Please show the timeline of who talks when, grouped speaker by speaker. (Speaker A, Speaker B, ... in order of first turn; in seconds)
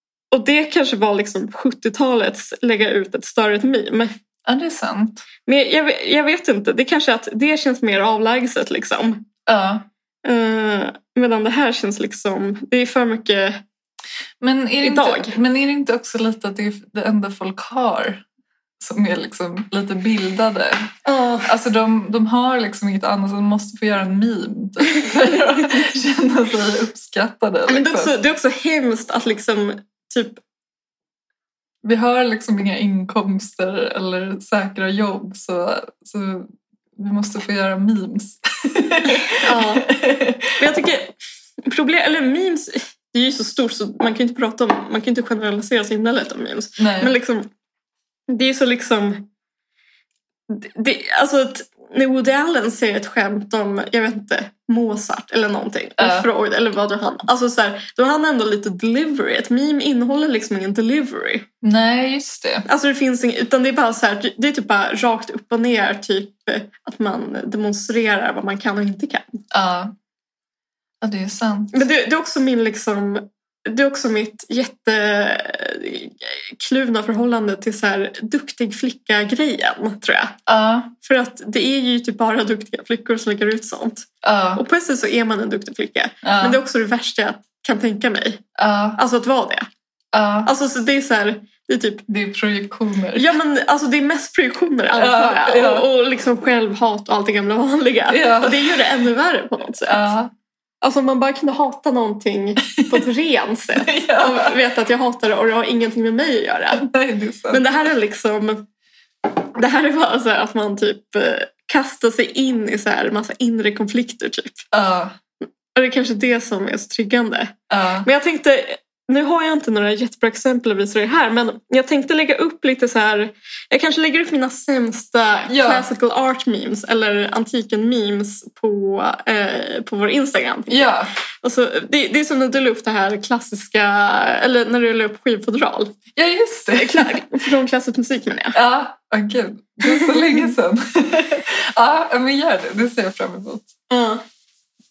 Speaker A: 0.3-4.1, 5.5-9.3, 10.2-13.6, 14.8-15.4, 21.1-21.5, 27.7-30.4, 39.3-39.9, 40.6-47.5, 48.3-49.3, 50.5-61.5, 62.7-69.4, 71.7-80.4, 81.0-88.4, 89.0-89.7, 90.5-92.0, 93.2-100.1, 100.8-106.9, 107.5-108.7, 109.5-114.7, 115.8-135.9, 136.8-138.6, 139.9-140.2, 143.9-144.2
Speaker B: 4.5-5.3, 9.5-9.8, 14.4-18.2, 18.8-20.9, 21.4-28.1, 31.8-40.5, 46.8-47.1, 56.0-56.3, 61.6-62.7, 69.5-69.9, 71.0-71.9, 80.5-80.9, 84.2-84.6, 86.2-86.6, 88.6-89.0, 90.1-90.5, 92.1-93.3, 94.9-95.9, 98.1-98.8, 99.8-100.3, 103.8-104.6, 106.7-107.6, 114.7-115.2, 117.7-118.1, 125.5-125.8, 130.7-131.1, 136.2-137.2, 138.5-143.7